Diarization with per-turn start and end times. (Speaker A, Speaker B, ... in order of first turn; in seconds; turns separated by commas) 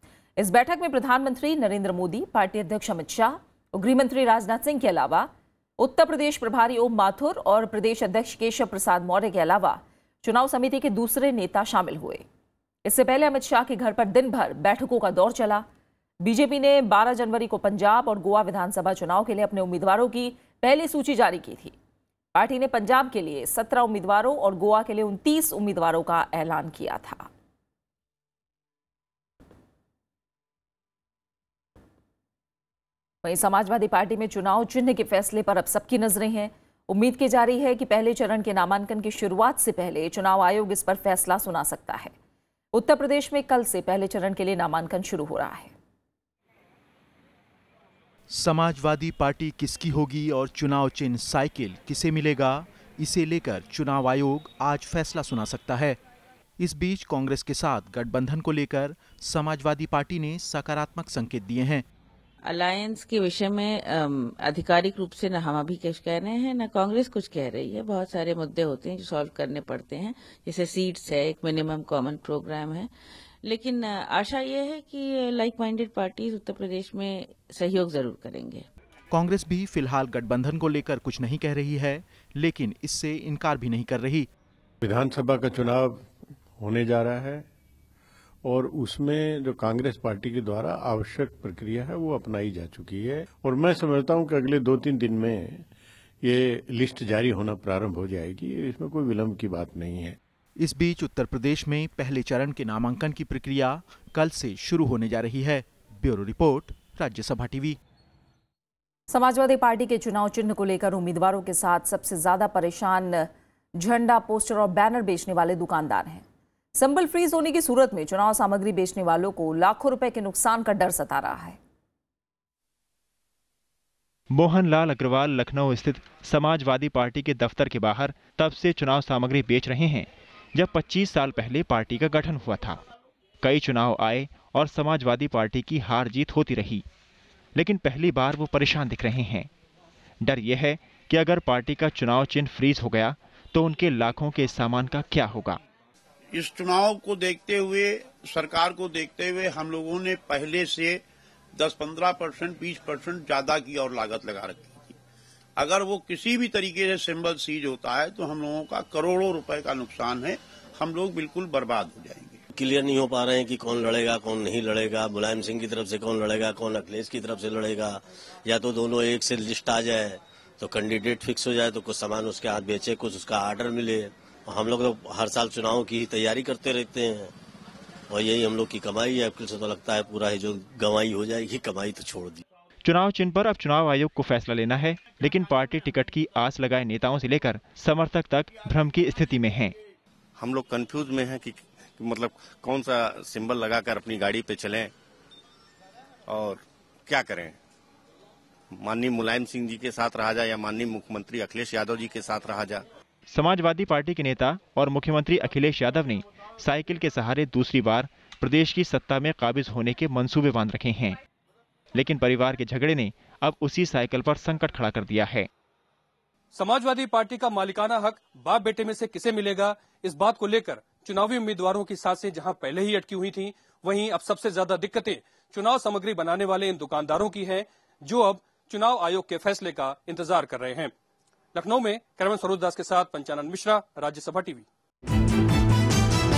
Speaker A: 0.4-12.2, Speaker A: 12.8-15.7, Speaker A: 16.2-21.7, Speaker A: 22.4-27.3, Speaker A: 33.2-42.1, Speaker A: 42.7-45.7, Speaker B: 48.3-56.0, Speaker B: 56.6-61.9, Speaker C: 62.5-72.9, Speaker C: 73.4-78.7, Speaker B: 79.1-84.3, Speaker D: 84.8-87.5, Speaker D: 88.4-95.7, Speaker D: 96.2-100.2, Speaker B: 100.6-107.8, Speaker A: 109.1-116.2, Speaker A: 116.8-121.6, Speaker E: 124.3-132.8, Speaker E: 133.4-136.8, Speaker E: 137.6-139.5, Speaker E: 140.2-145.6, Speaker F: 146.3-151.0, Speaker F: 151.6-155.0, Speaker F: 155.6-162.4, Speaker G: 162.5-177.3, Speaker G: 178.1-182.4, Speaker E: 182.8-189.8, Speaker H: 190.4-194.8, Speaker H: 197.1-197.5, Speaker H: 198.8-202.8, Speaker E: 203.3-211.2, Speaker E: 211.9-215.5, Speaker I: 216.5-230.9, Speaker I: 231.5-234.7